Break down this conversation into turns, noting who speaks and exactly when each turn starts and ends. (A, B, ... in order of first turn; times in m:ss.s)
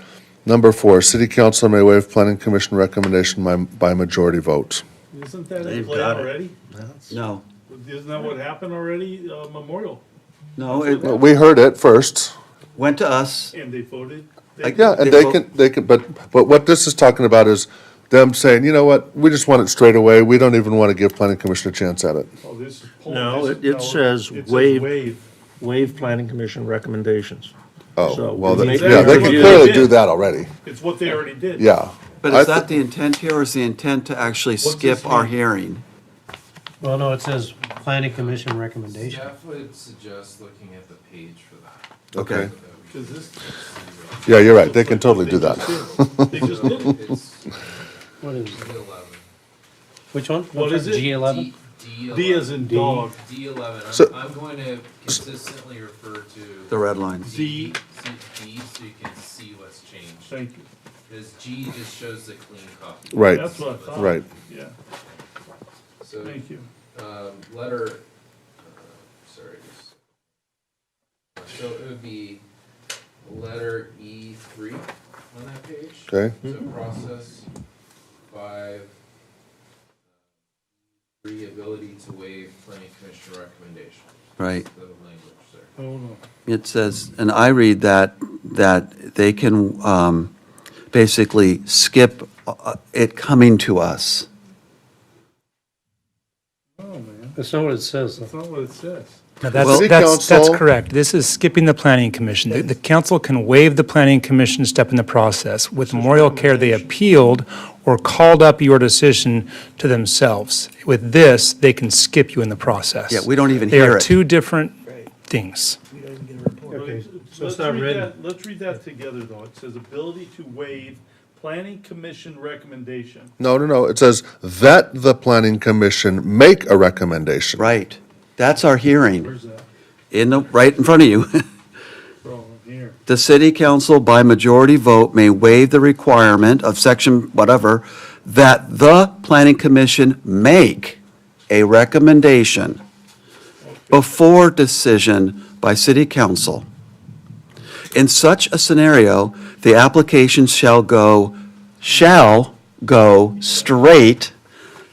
0:00.4-0:04.8 A
0:05.1-0:07.1 B
0:07.1-0:07.4 C
0:07.7-0:10.0 B
0:10.6-0:11.1 C
0:10.7-0:11.2 B
0:10.9-0:12.3 A
0:12.8-0:13.5 C
0:13.5-0:15.2 B
0:14.6-0:15.4 C
0:14.7-0:22.3 A
0:22.4-0:25.3 B
0:23.0-0:24.9 D
0:25.6-0:27.5 D
0:28.0-0:30.5 A
0:28.0-0:30.0 B
0:28.1-0:29.7 D
0:30.6-0:31.7 B
0:31.6-0:32.7 A
0:32.2-0:35.8 C
0:34.6-0:35.4 B
0:36.8-0:39.3 E
0:38.1-0:44.6 F
0:42.1-0:42.5 A
0:42.2-0:42.5 C
0:42.9-0:43.6 B
0:44.2-0:46.9 A
0:44.5-0:47.0 B
0:45.4-0:49.2 F
0:48.2-0:48.7 E
0:50.1-0:51.5 E
0:50.5-0:51.1 B
0:51.0-1:00.3 F
0:52.1-0:53.2 B
0:52.6-0:53.0 E
0:56.7-0:57.3 C
0:57.2-0:57.8 B
1:00.3-1:00.7 B
1:01.1-1:04.2 F
1:03.1-1:04.2 A
1:03.2-1:04.7 B
1:06.0-1:08.0 F
1:06.2-1:06.7 B
1:08.6-1:10.0 F
1:11.4-1:12.4 F
1:13.2-1:17.5 F
1:16.1-1:16.4 A
1:18.3-1:18.9 F
1:21.2-1:25.7 F
1:24.4-1:24.7 C
1:25.8-1:26.2 B
1:26.5-1:30.3 C
1:30.9-1:34.3 C
1:36.8-1:37.4 B
1:37.4-1:38.3 E
1:38.1-1:39.2 B
1:39.4-1:55.8 G
1:39.5-1:40.6 A
1:39.6-1:39.9 C
1:45.8-1:47.0 B
1:53.1-1:54.2 C
1:56.7-1:58.1 E
1:56.7-2:03.3 B
2:03.4-2:07.8 A
2:07.6-2:09.3 C
2:09.2-2:09.7 B
2:10.1-2:11.4 C
2:12.2-2:13.0 B
2:13.1-2:22.8 C
2:23.6-2:24.1 B
2:23.9-2:26.7 C
2:27.9-2:34.3 C